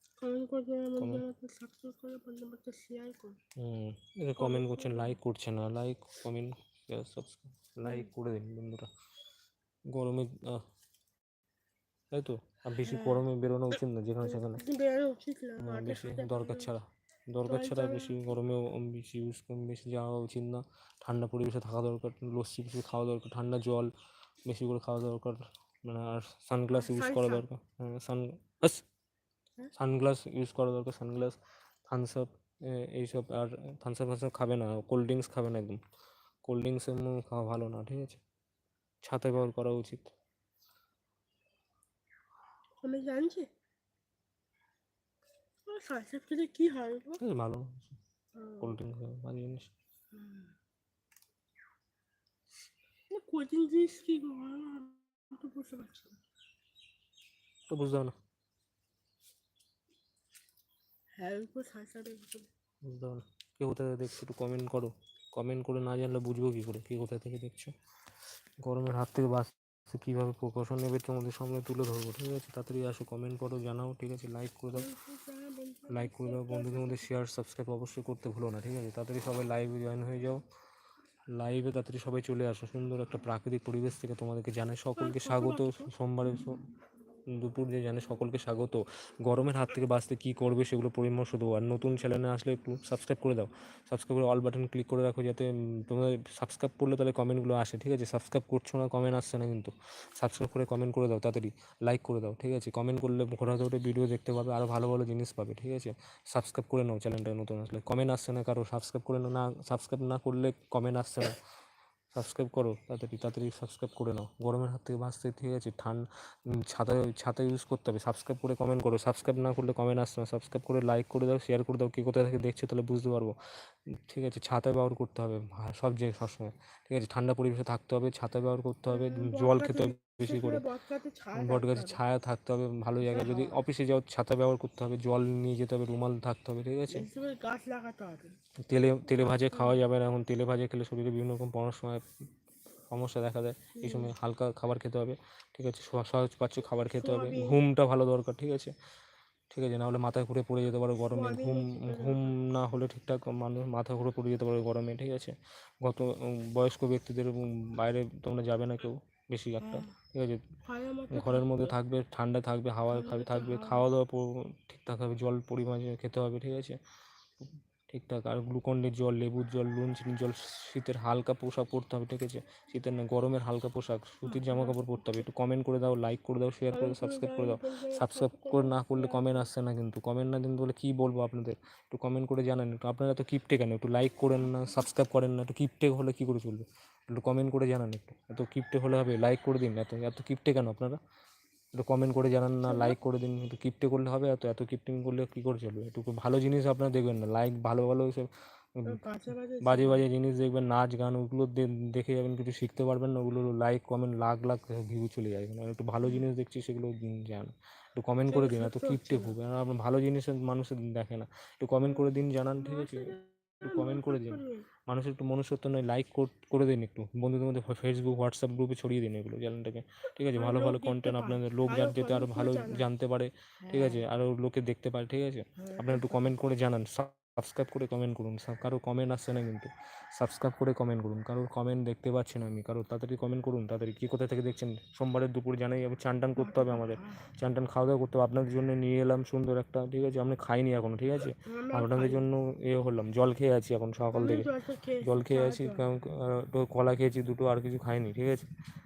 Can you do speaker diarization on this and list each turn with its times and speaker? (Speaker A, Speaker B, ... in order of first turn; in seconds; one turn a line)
Speaker A: 0.2-3.4
Speaker B: 1.0-1.2
Speaker B: 3.6-8.9
Speaker A: 4.4-5.2
Speaker A: 7.8-8.1
Speaker B: 9.9-10.6
Speaker B: 12.1-14.6
Speaker A: 12.8-13.3
Speaker A: 14.2-16.7
Speaker B: 15.6-23.9
Speaker A: 17.4-18.2
Speaker B: 24.5-28.9
Speaker A: 26.7-27.4
Speaker B: 29.8-35.8
Speaker B: 36.5-38.2
Speaker B: 39.0-40.1
Speaker A: 42.8-43.5
Speaker A: 45.6-47.2
Speaker B: 47.2-48.0
Speaker A: 48.3-48.8
Speaker B: 48.6-49.7
Speaker A: 50.1-50.5
Speaker A: 53.1-56.2
Speaker B: 57.7-58.1
Speaker A: 61.1-62.5
Speaker B: 62.8-67.7
Speaker B: 68.6-74.9
Speaker A: 74.8-77.1
Speaker B: 75.9-80.4
Speaker B: 81.3-86.6
Speaker A: 85.0-85.9
Speaker B: 87.3-111.3
Speaker B: 112.1-130.7
Speaker A: 128.9-132.0
Speaker B: 131.3-137.1
Speaker A: 133.0-133.6
Speaker A: 136.9-138.4
Speaker B: 138.6-142.0
Speaker A: 139.5-139.8
Speaker B: 142.9-148.7
Speaker A: 143.8-144.1
Speaker A: 147.0-147.6
Speaker B: 149.5-160.5
Speaker A: 151.1-152.4
Speaker A: 159.6-159.9
Speaker A: 160.6-161.8
Speaker B: 161.1-166.8
Speaker A: 162.9-163.9
Speaker B: 167.4-191.0
Speaker A: 174.2-174.9
Speaker A: 176.7-179.5
Speaker B: 191.8-199.0
Speaker A: 192.6-193.0
Speaker A: 198.8-200.1
Speaker B: 199.6-244.5
Speaker A: 208.3-209.4
Speaker A: 211.8-214.7
Speaker A: 220.3-222.9
Speaker A: 223.6-224.1
Speaker A: 225.6-226.2
Speaker A: 236.3-237.2
Speaker A: 241.4-242.3
Speaker A: 244.1-245.9
Speaker B: 245.0-248.5